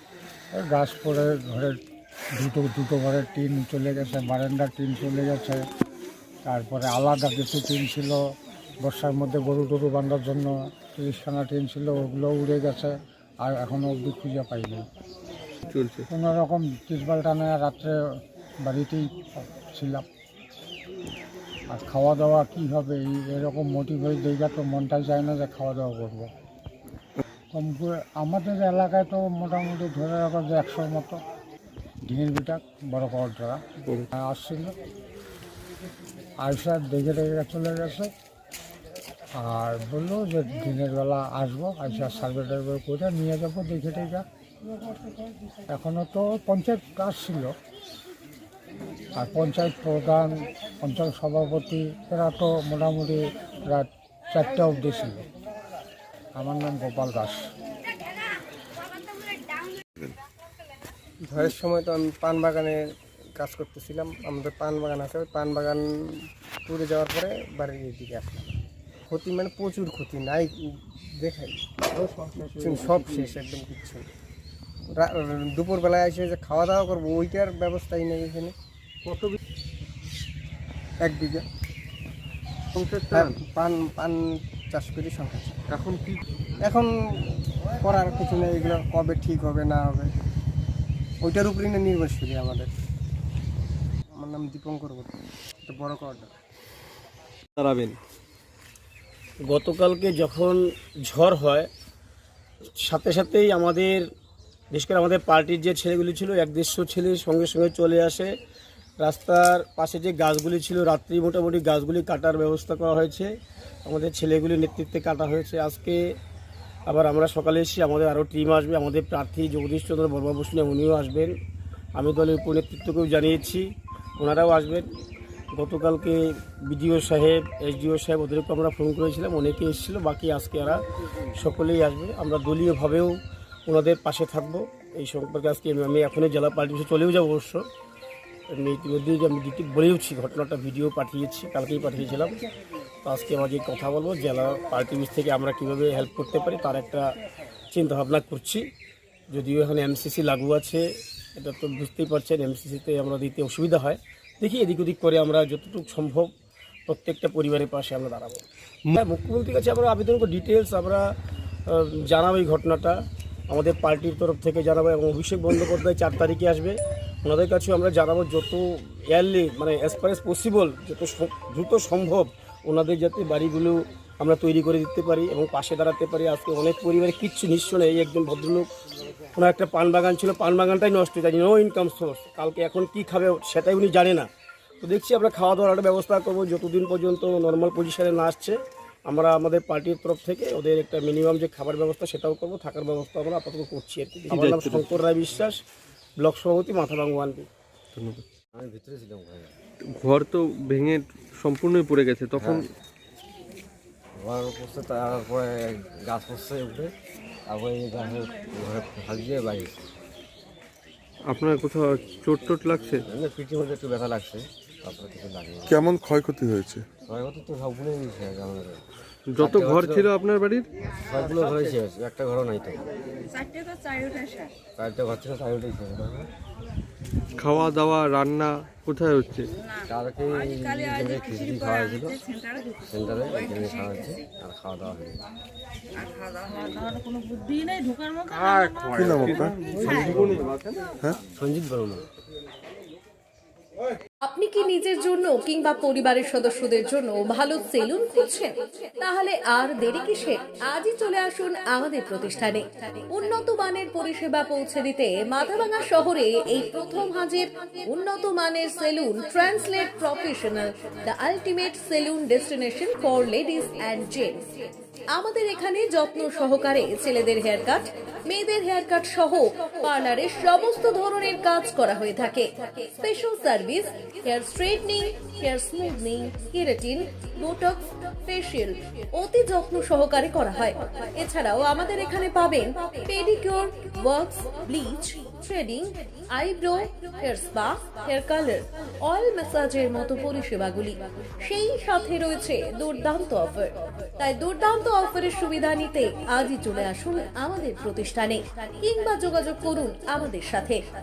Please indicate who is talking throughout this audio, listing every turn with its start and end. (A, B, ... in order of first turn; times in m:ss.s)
0:00.6-0:01.8 A
0:02.4-0:05.6 A
0:06.5-0:08.2 A
0:08.8-0:12.9 A
0:13.4-0:14.8 A
0:15.7-0:16.0 B
0:16.1-0:18.0 A
0:18.6-0:20.1 A
0:21.7-0:26.3 A
0:27.5-0:31.2 A
0:32.1-0:33.6 A
0:34.2-0:34.7 A
0:36.4-0:38.1 A
0:39.4-0:44.2 A
0:45.7-0:47.5 A
0:49.2-0:55.2 A
0:56.4-0:57.5 A
1:01.2-1:02.8 C
1:03.4-1:05.8 C
1:06.7-1:08.6 C
1:09.1-1:11.7 C
1:12.4-1:14.1 C
1:14.9-1:18.5 C
1:19.1-1:19.4 B
1:21.0-1:21.4 C
1:22.8-1:23.4 B
1:23.1-1:24.2 C
1:24.7-1:25.6 C
1:25.7-1:26.2 B
1:26.6-1:26.9 C
1:27.8-1:30.1 C
1:31.2-1:32.7 C
1:34.2-1:35.1 C
1:35.6-1:36.3 C
1:37.6-1:38.0 B
1:39.4-1:41.7 D
1:42.8-1:44.1 D
1:44.7-1:48.3 D
1:49.0-1:53.3 D
1:53.8-1:56.1 D
1:56.9-2:01.4 D
2:02.0-2:04.9 D
2:05.5-2:10.8 D
2:11.3-2:17.6 D
2:18.5-2:22.4 D
2:23.0-2:27.2 D
2:27.7-2:28.7 D
2:29.3-2:30.8 D
2:31.4-2:36.3 D
2:36.9-2:38.4 D
2:39.0-2:41.1 D
2:41.7-2:43.0 D
2:43.5-2:58.7 D
2:59.3-3:04.3 D
3:04.8-3:15.6 D
3:14.3-3:15.0 B
3:16.2-3:17.5 D
3:18.0-3:18.2 B
3:18.5-3:19.5 E
3:19.9-3:22.6 B
3:22.4-3:22.6 E
3:24.2-3:26.9 E
3:27.5-3:29.8 E
3:31.3-3:33.0 B
3:33.1-3:35.8 E
3:35.7-3:36.9 F
3:37.1-3:38.8 E
3:39.3-3:40.7 B
3:39.4-3:40.1 E
3:41.1-3:42.8 E
3:43.4-3:44.5 G
3:44.8-3:46.3 E
3:47.4-3:49.5 B
3:49.9-3:52.2 E
3:50.4-3:52.6 G
3:52.9-3:55.2 E
3:53.3-3:54.2 G
3:56.1-3:59.0 G
3:58.5-4:00.5 B
3:59.0-4:00.2 F
3:59.8-4:00.0 G
4:00.1-4:00.4 E
4:01.3-4:02.1 E
4:04.2-4:24.5 H
4:25.2-5:00.8 H